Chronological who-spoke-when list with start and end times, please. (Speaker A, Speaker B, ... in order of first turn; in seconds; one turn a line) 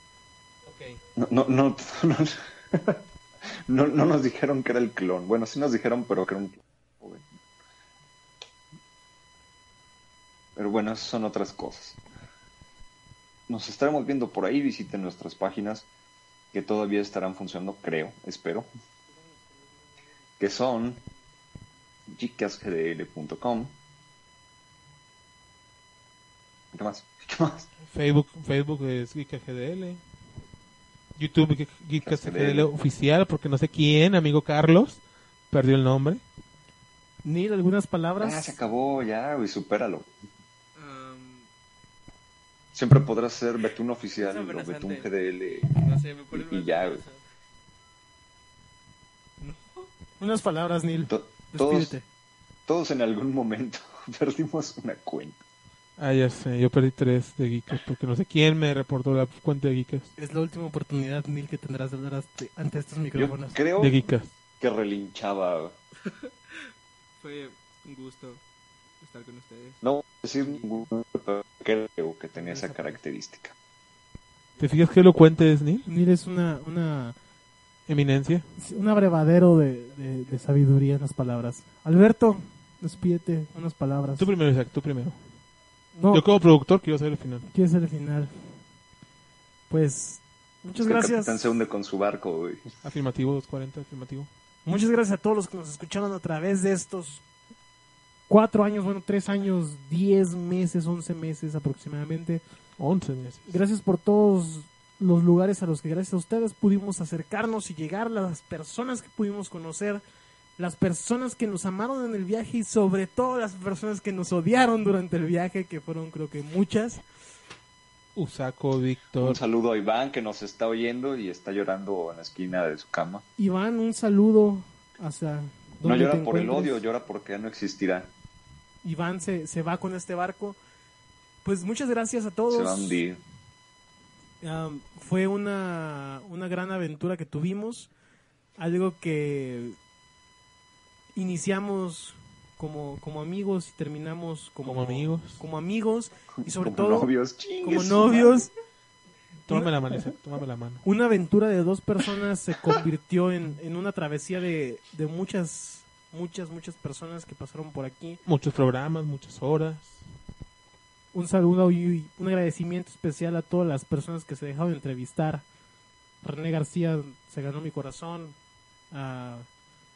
Speaker A: 0.6-1.0
Speaker B: 1.2-3.0
Speaker B: 3.7-7.2
Speaker B: 10.6-12.0
Speaker B: 13.5-15.9
Speaker B: 16.5-18.7
Speaker C: 19.1-20.1
Speaker B: 20.4-21.0
Speaker B: 22.1-23.7
Speaker B: 26.7-27.7
Speaker A: 27.9-30.0
Speaker A: 31.1-36.2
Speaker B: 32.0-32.7
Speaker D: 37.2-38.6
Speaker B: 38.2-40.1
Speaker C: 40.7-41.5
Speaker B: 42.7-47.0
Speaker C: 44.1-47.2
Speaker C: 49.4-49.9
Speaker D: 50.2-52.0
Speaker B: 51.1-52.0
Speaker B: 52.7-55.4
Speaker A: 56.0-60.1
Speaker D: 60.2-63.6
Speaker B: 63.1-64.0
Speaker A: 63.8-64.3
Speaker B: 64.6-65.8
Speaker C: 66.0-66.3
Speaker C: 67.2-68.4
Speaker C: 69.0-69.8
Speaker B: 69.8-73.5
Speaker C: 70.4-70.9
Speaker C: 72.5-73.0
Speaker A: 74.6-75.9
Speaker D: 75.8-77.1
Speaker A: 77.9-78.5
Speaker D: 78.6-84.3
Speaker A: 84.2-85.2
Speaker D: 85.9-86.3
Speaker A: 86.1-87.4
Speaker D: 87.5-88.3
Speaker D: 89.7-91.5
Speaker B: 90.8-92.7
Speaker A: 92.8-94.3
Speaker D: 94.7-97.2
Speaker D: 98.3-102.4
Speaker A: 102.8-103.5
Speaker D: 103.5-110.0
Speaker D: 110.6-117.0
Speaker A: 118.2-119.4
Speaker B: 119.2-123.2
Speaker D: 123.4-126.8
Speaker B: 125.8-128.1
Speaker D: 128.8-130.6
Speaker D: 131.4-133.0
Speaker B: 132.5-133.2
Speaker D: 134.4-137.9
Speaker D: 138.6-139.8
Speaker D: 141.2-147.1
Speaker A: 144.6-145.4
Speaker B: 146.4-148.4
Speaker D: 147.6-148.5
Speaker A: 149.4-150.8
Speaker D: 150.8-158.2
Speaker A: 158.2-160.1
Speaker D: 161.1-165.4
Speaker D: 166.2-168.3
Speaker D: 168.9-169.5